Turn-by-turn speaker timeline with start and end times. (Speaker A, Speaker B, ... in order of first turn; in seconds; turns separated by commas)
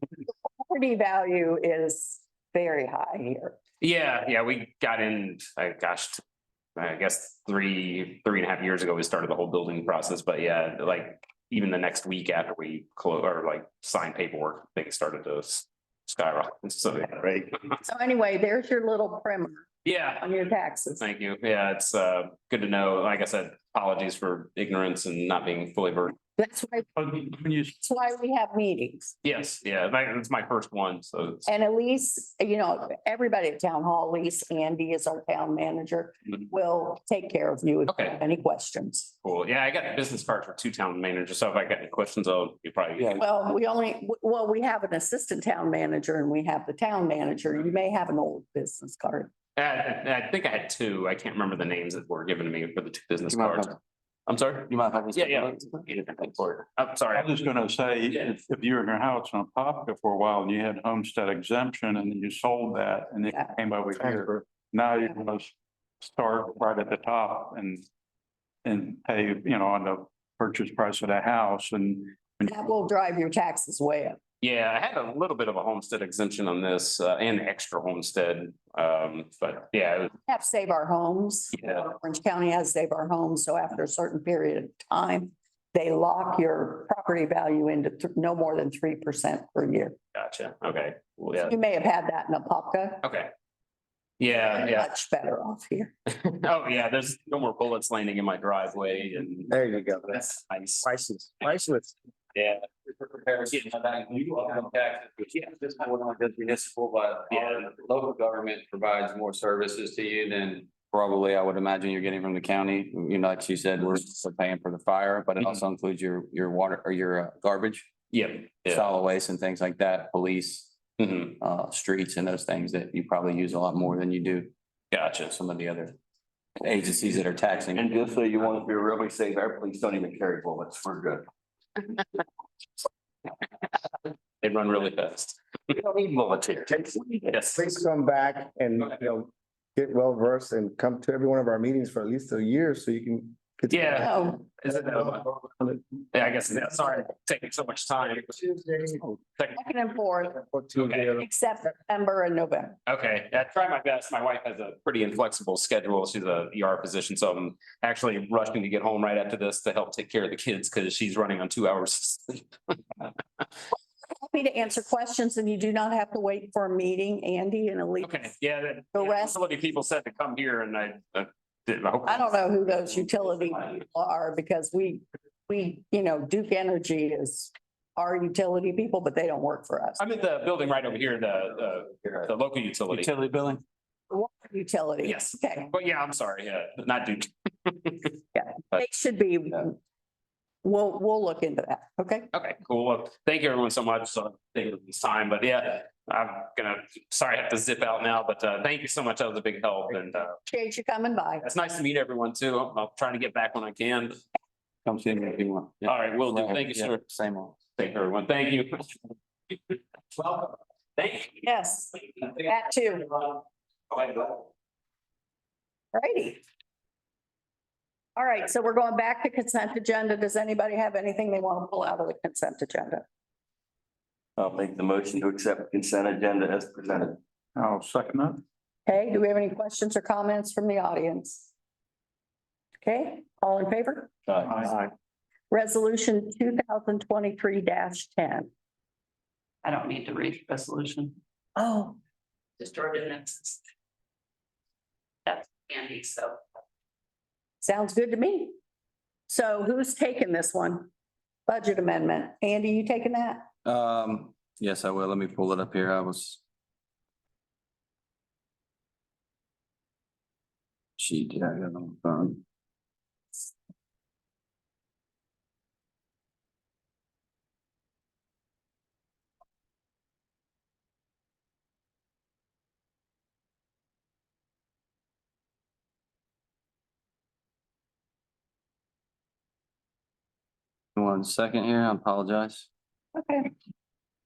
Speaker A: 0.5-3.6, Speaker B: 3.8-6.2, Speaker B: 6.8-17.7, Speaker A: 17.8-19.7, Speaker B: 19.9-26.2, Speaker A: 20.2-21.1, Speaker A: 26.4-26.9, Speaker C: 27.0-27.8, Speaker A: 27.8-29.1, Speaker B: 29.2-31.5, Speaker A: 31.5-39.1, Speaker B: 37.9-38.2, Speaker B: 39.2-43.2, Speaker A: 43.2-49.3, Speaker B: 49.6-53.7, Speaker D: 53.3-53.8, Speaker B: 54.3-57.3, Speaker D: 54.7-56.4, Speaker C: 57.1-67.8, Speaker C: 68.6-72.5, Speaker A: 72.5-74.2, Speaker B: 74.4-80.1, Speaker A: 80.3-90.0, Speaker B: 90.2-91.5, Speaker A: 91.4-93.0, Speaker B: 93.0-93.3, Speaker B: 94.2-94.9, Speaker A: 94.3-95.9, Speaker B: 96.1-100.9, Speaker E: 99.5-100.2, Speaker E: 100.8-101.9, Speaker B: 102.3-102.6, Speaker D: 102.9-117.9, Speaker B: 107.3-107.6, Speaker B: 118.1-118.9, Speaker D: 118.7-120.7, Speaker B: 121.0-121.3, Speaker D: 121.4-124.5, Speaker B: 124.9-125.3, Speaker D: 125.3-126.0, Speaker D: 126.6-127.9, Speaker F: 127.7-131.3, Speaker B: 134.4-135.4, Speaker F: 135.8-136.9, Speaker E: 137.0-145.8, Speaker B: 137.3-137.7, Speaker B: 143.7-145.4, Speaker A: 144.0-144.4, Speaker B: 146.1-148.4, Speaker E: 148.3-149.0, Speaker B: 149.0-149.6, Speaker A: 149.6-150.5, Speaker E: 150.5-151.2, Speaker B: 150.7-151.2, Speaker A: 151.2-152.8, Speaker B: 152.9-163.1, Speaker A: 164.2-168.3, Speaker B: 168.0-172.8, Speaker A: 168.9-169.4, Speaker A: 172.1-180.0, Speaker B: 180.0-183.1, Speaker D: 182.9-183.6, Speaker A: 184.1-185.7, Speaker B: 185.0-188.2, Speaker A: 188.3-189.8, Speaker A: 190.6-192.3, Speaker B: 192.3-200.4, Speaker A: 200.5-201.4, Speaker B: 201.4-204.2, Speaker D: 204.8-207.6, Speaker B: 205.8-207.0, Speaker B: 207.8-211.4, Speaker A: 211.4-213.1, Speaker B: 213.9-214.4, Speaker A: 215.9-216.4, Speaker A: 218.2-223.1, Speaker F: 224.4-227.2, Speaker C: 227.6-228.4, Speaker A: 228.9-231.5, Speaker A: 232.8-234.1, Speaker A: 235.5-238.5, Speaker G: 239.6-241.2, Speaker A: 241.6-241.9, Speaker G: 242.6-243.6, Speaker G: 245.3-246.4, Speaker A: 247.6-248.6, Speaker A: 249.3-250.9, Speaker A: 251.5-253.5, Speaker D: 253.6-256.4, Speaker D: 261.0-262.4, Speaker D: 281.0-282.7, Speaker A: 283.2-283.5